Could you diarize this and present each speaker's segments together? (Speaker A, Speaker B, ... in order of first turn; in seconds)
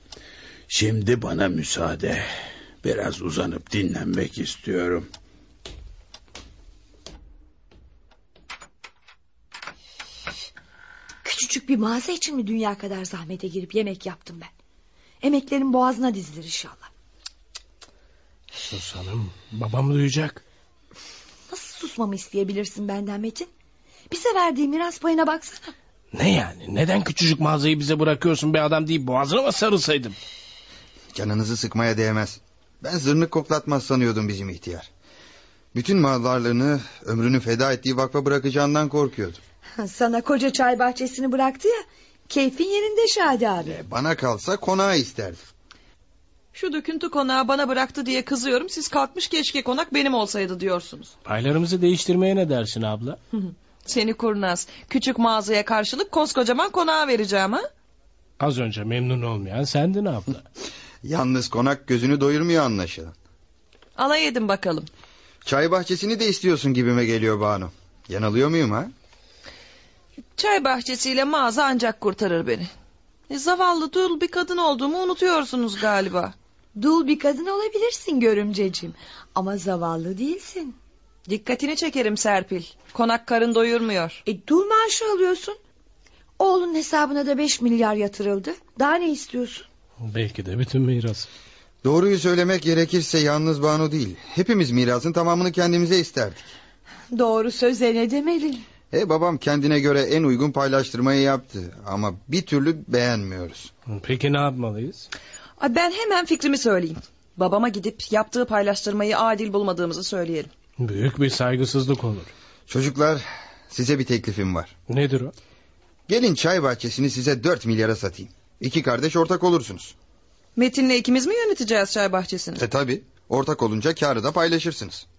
Speaker A: 0.7-2.3, 2.8-5.1
Speaker B: 11.2-14.5, 15.2-16.9, 21.5-23.5, 24.1-25.7, 39.8-43.8, 76.8-80.8, 84.2-85.6, 86.4-89.7, 97.1-98.6
Speaker C: 18.6-20.4, 26.1-30.2, 51.3-53.2, 58.4-60.4, 90.1-91.3, 103.9-105.1, 110.8-112.3, 114.9-115.3
Speaker D: 31.1-34.9, 35.7-39.4, 43.6-45.4, 61.0-63.1, 65.5-68.9, 91.8-96.5, 98.9-103.7, 112.7-114.7, 116.1-120.0, 122.6-125.0
Speaker E: 46.5-51.1, 53.9-57.7, 64.0-64.9, 70.4-72.7, 73.3-76.3, 81.3-84.2, 105.6-110.5, 120.6-122.6